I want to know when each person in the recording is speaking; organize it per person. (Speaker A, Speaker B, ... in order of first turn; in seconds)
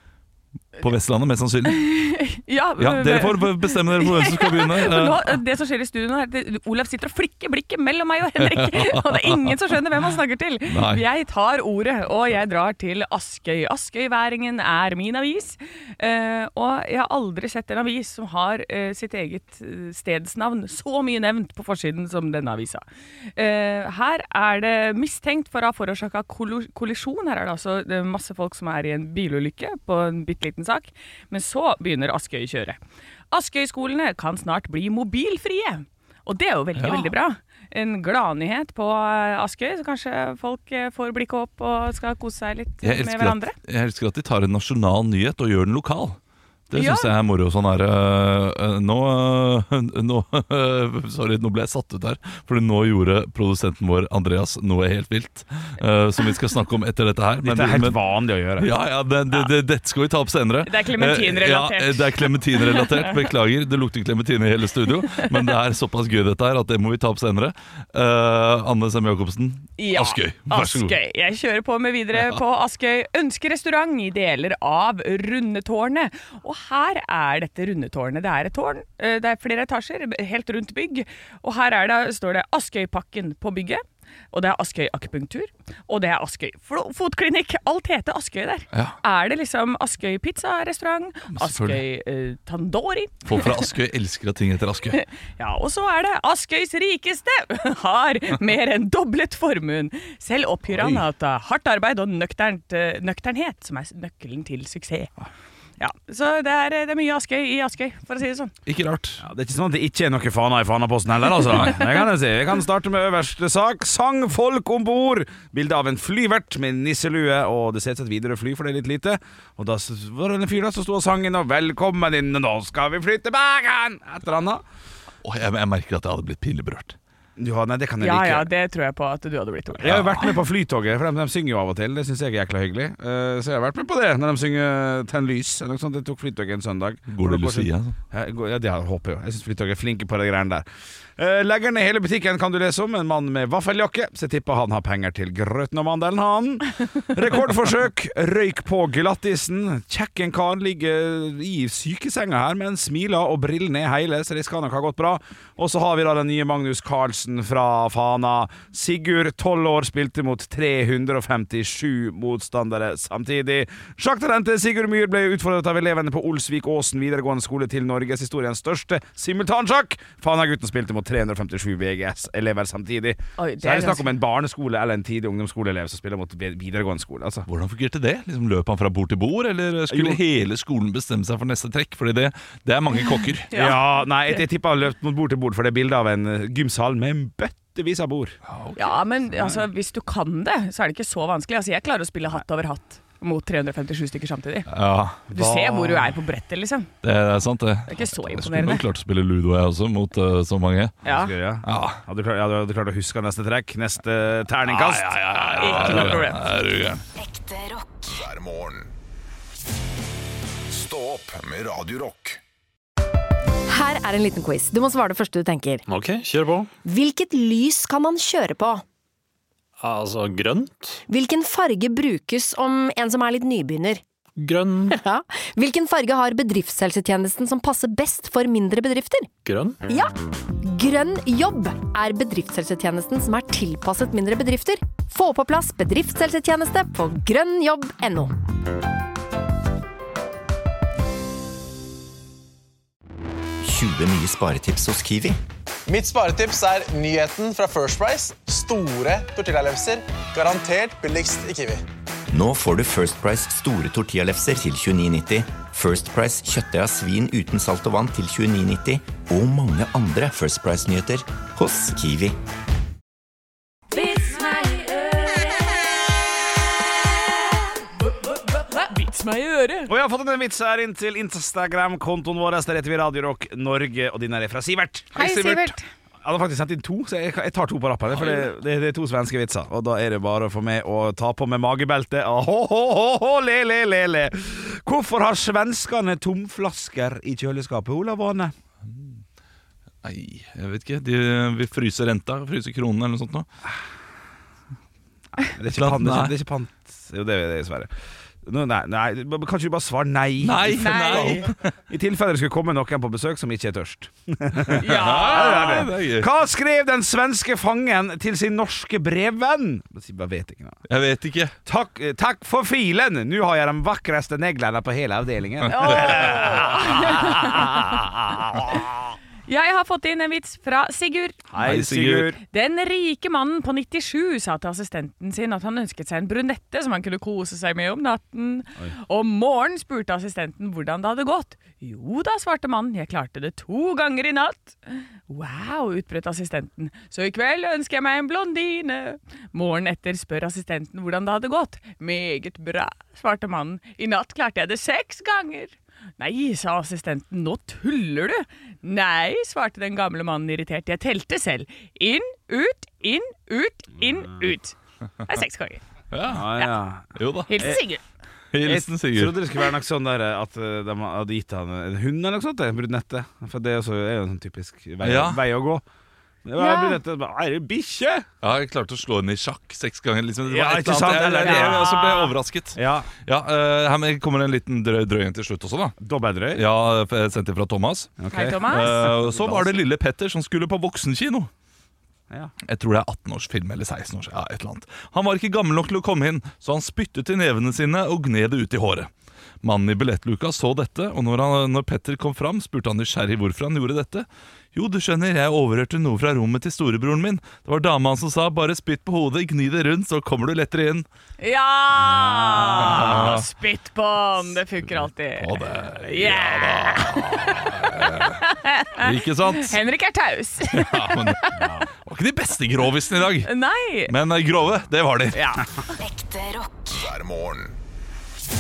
Speaker A: 0.8-1.9, 2.8-5.4, 8.4-9.6, 10.7-11.0, 36.8-37.1, 42.8-46.2, 46.7-58.0, 58.6-71.0, 91.3-91.8, 93.2-95.0, 108.7-109.2, 125.2-127.0, 129.8-130.3, 137.1-137.9, 177.5-183.5, 188.5-189.6, 194.7-195.2, 197.0-201.0, 201.6-202.0, 204.7-207.0, 290.0-293.5, 295.7-296.4, 300.4-301.7, 304.7-306.3, 310.9-311.5, 315.7-316.3, 321.6-322.3, 356.1-356.5, 357.2-357.8, 358.5-359.4, 365.0-365.4, 368.4-376.0, 376.5-381.5, 382.6-389.1, 389.6-401.1, 402.8-403.5, 405.4-408.4, 409.0-409.8, 410.7-411.4, 412.1-413.5, 414.1-415.4
Speaker B: 1.6-22.8, 23.4-32.8, 33.3-43.5, 46.7-47.1, 60.6-63.2, 65.1-65.3, 69.8-93.6, 95.0-105.1, 105.8-108.5, 128.0-130.3, 173.4-174.1, 183.5-184.4, 188.8-194.7, 195.3-196.9, 197.9-198.8, 201.0-201.3, 205.6-206.4, 263.9-265.7, 268.5-269.9, 275.1-275.9, 300.7-301.5, 304.8-305.9, 315.7-318.1, 319.5-321.4, 322.5-355.8, 357.5-358.0, 366.6-367.0, 371.4-372.3, 378.3-379.1, 401.4-411.7, 413.4-414.1
Speaker C: 57.4-58.7, 109.2-124.6, 127.4-128.5, 129.8-140.7, 141.2-177.5, 179.9-180.2, 183.5-188.3, 195.3-196.1, 201.1-206.3, 269.9-288.5, 295.4-297.9, 298.4-310.8, 311.7-318.9, 321.5-322.4, 356.3-357.8, 358.6-365.8, 366.4-368.3, 370.4-371.9, 372.8-373.1, 376.0-376.6, 378.2-379.8, 402.0-403.3, 411.6-411.9
Speaker D: 207.2-208.1, 416.0-417.0
Speaker E: 208.1-208.9, 210.7-212.4, 416.9-417.8
Speaker F: 213.7-215.8, 216.8-218.8, 221.1-224.0, 224.9-229.3, 229.9-238.3
Speaker G: 215.9-216.7, 219.8-221.0, 224.4-225.0, 229.4-229.8
Speaker H: 243.6-245.4, 252.3-262.4
Speaker I: 245.9-251.8